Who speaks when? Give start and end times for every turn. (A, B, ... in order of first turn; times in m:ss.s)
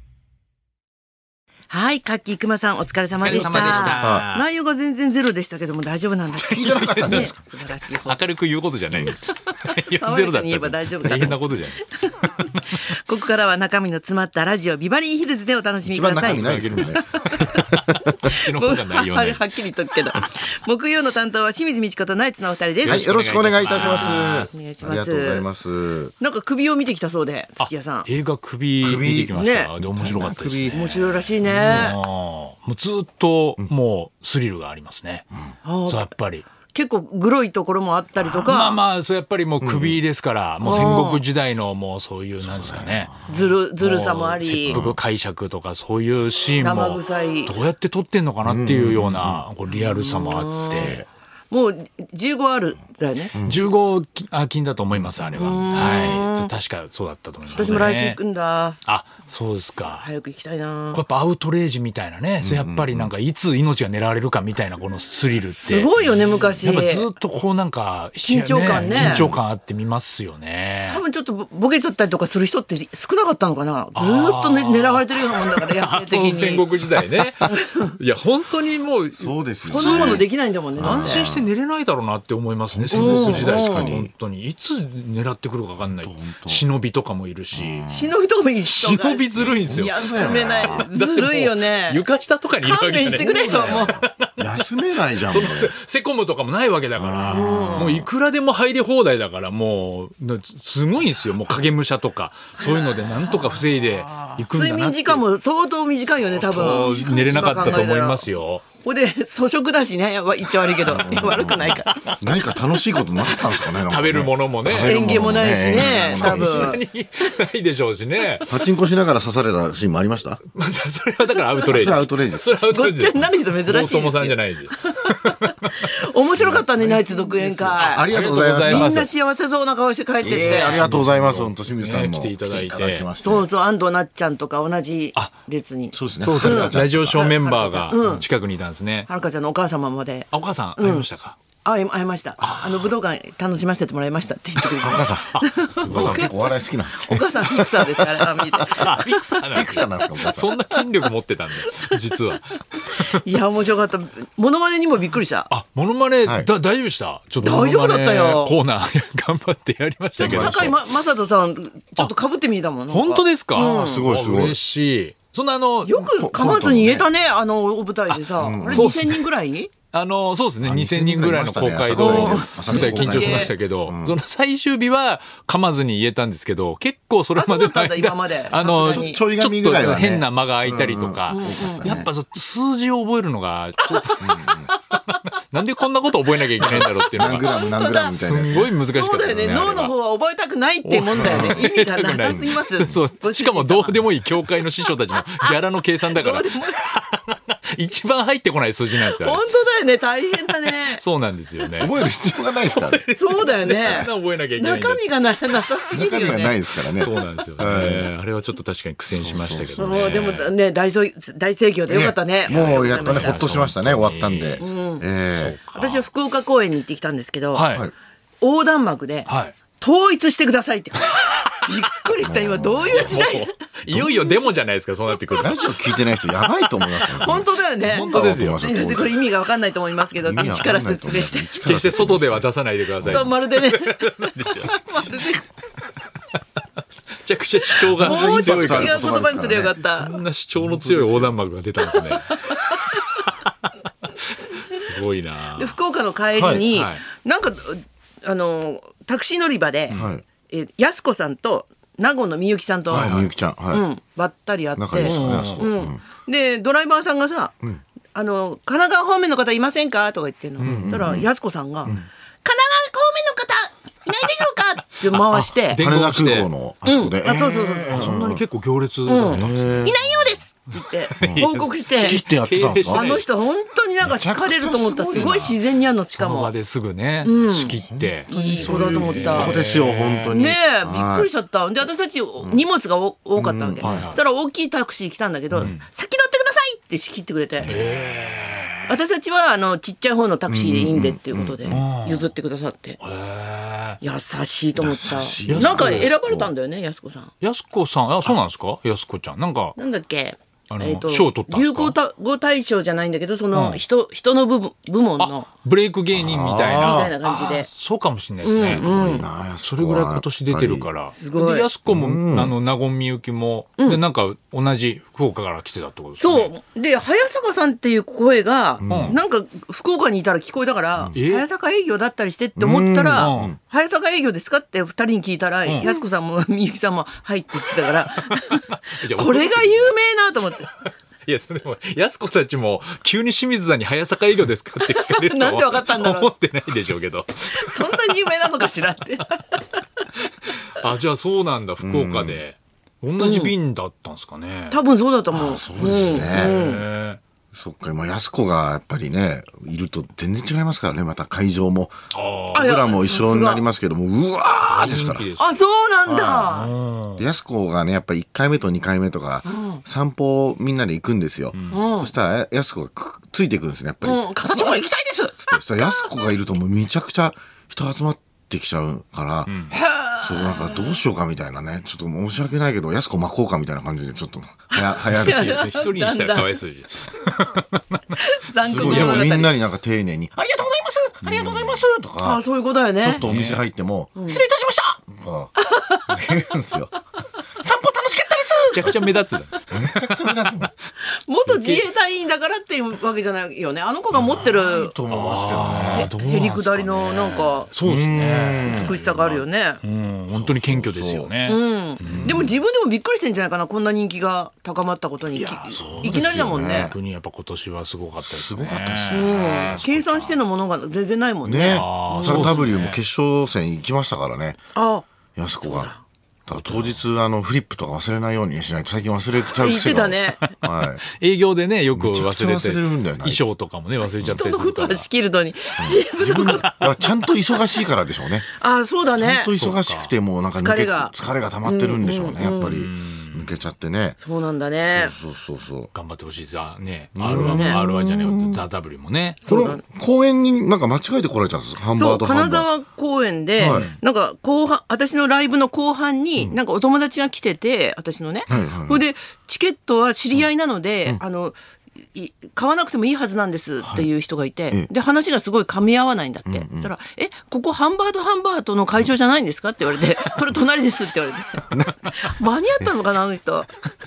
0:01.7-0:08.2 A
0:03.2-0:04.4 B
0:03.9-0:04.3 C
0:06.3-0:07.4 C
0:06.6-0:07.3 B
0:08.0-0:12.5 B
0:09.7-0:11.4 A
0:12.0-0:17.7 A
0:15.8-0:17.8 C
0:16.2-0:19.4 B
0:18.2-0:23.0 A
0:22.8-0:24.5 B
0:22.8-0:26.1 C
0:23.8-0:25.5 A
0:26.2-0:28.1 A
0:27.6-0:31.0 B
0:28.8-0:31.9 C
0:29.3-0:29.7 A
0:30.7-0:32.0 A
0:31.6-0:35.3 B
0:35.6-0:36.1 A
0:35.8-0:36.5 B
0:36.7-0:38.8 A
0:38.2-0:43.2 B
0:39.6-0:40.0 C
0:40.6-0:41.2 A
0:42.4-0:43.4 C
0:43.3-0:44.8 A
0:43.8-0:51.0 B
0:44.7-0:45.0 C
0:46.6-0:47.5 A
0:48.4-0:49.4 C
0:49.8-0:51.0 A
0:50.7-0:51.0 C
0:51.5-0:53.3 A
0:53.3-0:53.6 C
0:53.4-0:58.2 B
0:54.9-0:55.6 C
0:55.4-0:56.5 A
0:57.5-0:58.8 A
0:58.8-1:00.1 B
1:00.0-1:01.0 A
1:00.9-1:11.0 B
1:02.4-1:03.1 C
1:05.6-1:07.1 A
1:08.2-1:09.3 A
1:08.7-1:09.4 C
1:10.9-1:16.6 A
1:13.9-1:20.3 B
1:17.5-1:17.9 A
1:19.2-1:20.2 C
1:19.7-1:21.3 A
1:20.8-1:21.5 C
1:20.8-1:27.9 B
1:22.7-1:24.1 C
1:22.9-1:23.9 A
1:25.9-1:26.6 C
1:27.5-1:28.1 C
1:27.9-1:32.0 A
1:28.6-1:34.3 B
1:29.4-1:30.9 C
1:32.6-1:34.0 A
1:33.1-1:35.7 C
1:35.1-1:45.2 B
1:37.0-1:38.0 C
1:37.3-1:38.0 A
1:42.6-1:43.6 A
1:44.4-1:48.3 A
1:46.1-1:48.6 B
1:46.5-1:47.8 C
1:48.8-1:52.0 A
1:50.8-1:56.8 C
1:51.0-1:52.6 B
1:53.2-1:58.5 B
1:54.8-1:56.8 A
1:58.5-2:00.4 C
2:00.5-2:05.7 B
2:01.7-2:02.5 C
2:02.7-2:08.1 A
2:06.4-2:06.7 C
2:06.8-2:09.1 B
2:07.7-2:09.1 C
2:08.6-2:10.9 A
2:10.2-2:13.5 C
2:10.2-2:13.1 B
2:13.2-2:18.2 A
2:15.9-2:17.3 C
2:16.2-2:19.1 B
2:19.1-2:21.1 A
2:20.3-2:21.4 B
2:21.6-2:26.3 A
2:22.4-2:22.9 B
2:24.8-2:30.6 C
2:24.8-2:26.3 B
2:27.0-2:29.1 A
2:28.6-2:32.6 B
2:32.9-2:35.5 A
2:35.5-2:40.8 B
2:36.2-2:36.5 C
2:37.4-2:38.5 A
2:40.2-2:44.1 A
2:40.2-2:40.8 C
2:42.9-2:46.0 B
2:43.6-2:44.6 C
2:45.8-2:49.7 A
2:46.0-2:47.1 C
2:48.1-2:49.2 B
2:48.4-2:49.0 C
2:49.9-3:09.9 B
2:50.6-2:54.2 C
2:51.9-2:53.5 A
2:57.4-2:59.2 A
2:58.7-3:02.1 C
3:01.3-3:02.1 A
3:03.8-3:04.7 A
3:04.2-3:04.7 C
3:06.6-3:08.7 C
3:06.6-3:08.2 A
3:08.9-3:14.1 A
3:09.4-3:09.6 C
3:10.8-3:19.4 B
3:11.2-3:11.6 C
3:16.1-3:16.8 A
3:19.0-3:21.0 A
3:20.5-3:25.6 B
3:21.8-3:23.0 C
3:23.1-3:26.6 A
3:25.9-3:28.1 C
3:26.9-3:30.5 B
3:29.1-3:30.1 C
3:29.8-3:33.4 A
3:31.9-3:35.6 C
3:32.4-3:34.6 B
3:34.6-3:35.0 A
3:35.3-3:36.0 B
3:35.7-3:37.7 A
3:37.5-3:37.9 B
3:38.4-3:39.3 A
3:39.2-3:39.5 B
3:39.8-3:43.5 A
3:42.2-3:43.2 C
3:42.9-3:45.6 B
3:44.0-3:44.3 A
3:45.4-3:49.2 C
3:47.1-3:51.5 A
3:47.8-3:48.6 B
3:50.2-3:52.5 C
3:51.6-3:55.3 B
3:53.0-3:53.3 C
3:53.0-3:55.4 A
3:57.2-3:59.0 B
3:57.9-3:59.8 C
3:57.9-4:00.1 A
3:59.8-4:05.7 B
4:00.6-4:01.3 C
4:02.0-4:03.0 A
4:05.5-4:13.1 A
4:06.4-4:06.6 C
4:06.7-4:07.0 B
4:09.9-4:10.2 C
4:12.9-4:13.3 B
4:12.9-4:13.8 C
4:13.7-4:17.5 A
4:14.8-4:16.0 C
4:15.0-4:15.7 B
4:18.1-4:25.8 A
4:20.6-4:21.2 B
4:20.6-4:21.3 C
4:25.1-4:26.5 B
4:25.7-4:28.4 C
4:26.8-4:28.1 A
4:27.9-4:29.8 B
4:29.0-4:32.2 A
4:29.3-4:30.0 C
4:31.0-4:33.2 B
4:31.2-4:33.1 C
4:32.9-4:36.5 A
4:34.0-4:35.6 C
4:36.1-4:40.3 B
4:37.2-4:39.6 A
4:37.8-4:41.3 C
4:40.3-4:47.7 A
4:43.4-4:44.1 C
4:43.8-4:44.2 B
4:47.6-4:47.9 C
4:47.6-4:48.9 B
4:48.9-4:53.0 A
4:50.5-4:51.8 C
4:51.7-4:52.3 B
4:53.0-4:54.0 B
4:54.0-4:57.3 A
4:54.8-4:56.5 C
4:55.5-4:56.1 B
4:57.4-4:59.8 B
4:59.8-5:05.5 A
5:00.7-5:02.0 B
5:03.5-5:03.8 B
5:05.2-5:16.5 B
5:06.1-5:07.1 C
5:06.8-5:07.7 A
5:08.4-5:09.2 A
5:08.5-5:10.9 C
5:11.1-5:11.7 A
5:11.9-5:12.5 C
5:16.2-5:30.7 A
5:18.8-5:19.2 C
5:18.8-5:19.2 B
5:21.1-5:21.4 B
5:22.6-5:23.6 C
5:23.2-5:23.6 B
5:28.3-5:29.9 B
5:31.2-5:38.1 B
5:34.8-5:36.3 A
5:37.5-5:39.6 A
5:40.4-5:44.8 B
5:41.8-5:42.4 C
5:43.2-5:43.5 A
5:44.7-5:46.8 A
5:45.3-5:46.7 C
5:45.8-5:47.2 B
5:47.5-5:52.0 C
5:52.1-5:52.7 B
5:52.5-5:53.6 A
5:52.5-5:55.3 C
5:54.6-5:55.5 B
5:55.4-5:56.7 A
5:56.0-5:56.6 C
5:56.5-5:57.3 B
5:57.2-6:15.6 C
5:59.4-5:59.8 A
6:01.5-6:01.8 B
6:01.7-6:02.1 A
6:04.0-6:06.2 A
6:09.5-6:09.7 B
6:09.7-6:11.0 A
6:14.7-6:16.5 A
6:15.1-6:18.0 B
6:18.2-6:19.5 A
6:18.6-6:22.4 C
6:18.7-6:19.4 B
6:21.2-6:21.8 B
6:22.2-6:23.2 A
6:23.0-6:25.5 C
6:23.2-6:23.6 B
6:24.2-6:24.4 A
6:25.6-6:26.1 A
6:26.1-6:26.9 C
6:27.6-6:29.0 C
6:28.7-6:30.4 B
6:29.7-6:30.7 C
6:31.1-6:35.0 A
6:31.4-6:31.8 B
6:34.1-6:36.1 C
6:35.1-6:42.5 B
6:35.9-6:37.7 A
6:37.8-6:39.0 C
6:38.7-6:39.8 A
6:40.3-6:41.3 C
6:41.4-6:46.9 A
6:42.0-6:42.5 C
6:45.3-6:50.4 B
6:45.8-6:47.0 C
6:48.2-6:49.8 C
6:49.1-6:52.6 A
6:51.4-6:54.6 C
6:51.6-6:53.0 B
6:54.7-6:55.0 A
6:55.4-6:55.9 C
6:55.6-6:56.0 A
6:56.5-7:01.0 C
6:56.5-6:57.0 B
6:59.6-7:00.5 A
7:00.4-7:05.1 B
7:01.9-7:03.5 C
7:04.2-7:06.7 A
7:05.8-7:08.5 C
7:06.5-7:06.9 B
7:08.5-7:09.5 A
7:09.2-7:14.2 C
7:09.5-7:10.1 B
7:10.5-7:11.1 A
7:11.6-7:12.7 A
7:12.4-7:13.5 B
7:14.2-7:15.1 A
7:14.9-7:15.9 C
7:15.9-7:19.4 B
7:17.2-7:18.6 C
7:17.2-7:17.8 A
7:19.4-7:19.8 A
7:19.4-7:22.7 C
7:21.9-7:31.6 A
7:23.6-7:23.9 C
7:23.6-7:24.0 B
7:28.5-7:29.0 C
7:32.1-7:43.8 A
7:33.8-7:34.1 C
7:36.4-7:36.9 C
7:41.7-7:42.1 C